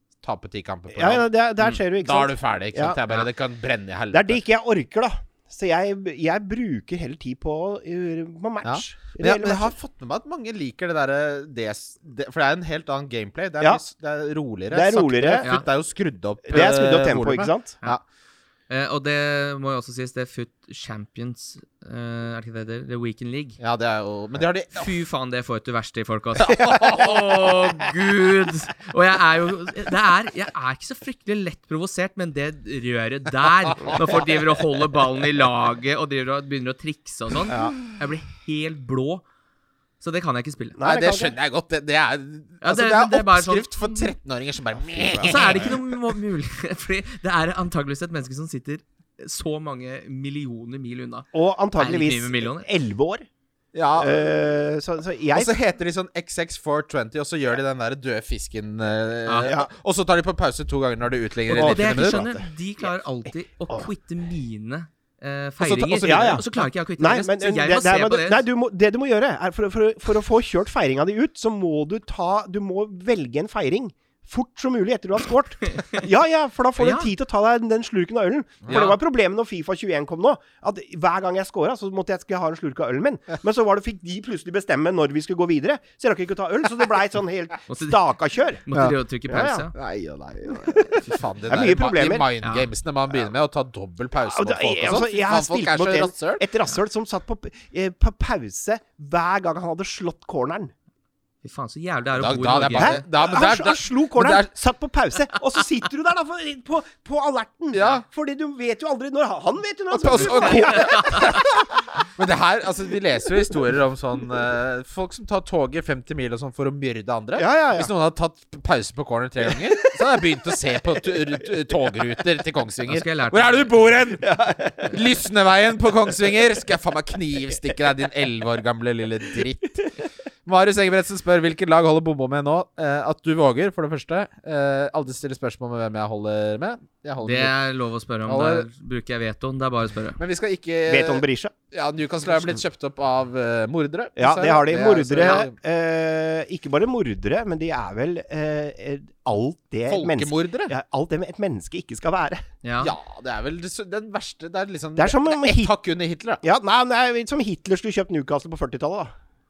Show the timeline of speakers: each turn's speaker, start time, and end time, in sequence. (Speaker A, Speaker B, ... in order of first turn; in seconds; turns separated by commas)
Speaker A: 0.2-4.4, Speaker B: 0.9-3.0, Speaker B: 4.1-9.8, Speaker A: 8.6-18.0, Speaker B: 14.7-15.5, Speaker B: 16.5-17.8, Speaker C: 18.7-23.6, Speaker A: 23.6-24.9, Speaker C: 24.7-39.2, Speaker A: 26.4-27.5, Speaker B: 37.5-37.8, Speaker C: 40.0-40.8, Speaker B: 40.8-41.4, Speaker A: 40.8-45.9, Speaker C: 42.6-44.1, Speaker B: 44.8-45.8, Speaker C: 45.2-52.7, Speaker B: 51.3-53.3, Speaker A: 53.7-54.3, Speaker B: 54.0-55.5, Speaker A: 55.3-62.3, Speaker C: 59.3-59.5, Speaker B: 61.5-62.5, Speaker C: 61.5-68.5, Speaker B: 65.7-88.6, Speaker A: 65.7-66.4, Speaker C: 75.8-76.0, Speaker C: 76.8-77.1, Speaker A: 78.6-78.9, Speaker C: 78.7-79.0, Speaker C: 87.7-88.0, Speaker C: 88.6-89.7, Speaker A: 88.7-96.5, Speaker B: 89.3-89.7, Speaker B: 90.5-92.3, Speaker C: 92.4-92.7, Speaker B: 94.2-100.7, Speaker C: 101.4-103.0, Speaker A: 102.2-104.5, Speaker B: 102.8-111.5, Speaker A: 107.7-108.0, Speaker A: 109.9-137.5, Speaker C: 110.3-111.3, Speaker B: 117.4-117.9, Speaker C: 122.9-123.7, Speaker B: 124.2-125.0, Speaker C: 137.2-140.2, Speaker A: 138.3-138.7, Speaker A: 140.2-145.5, Speaker B: 140.9-141.5, Speaker B: 144.2-152.4, Speaker C: 145.2-145.4, Speaker A: 149.9-150.7, Speaker C: 152.6-152.9, Speaker A: 152.8-156.4, Speaker B: 155.0-155.7, Speaker B: 156.4-159.1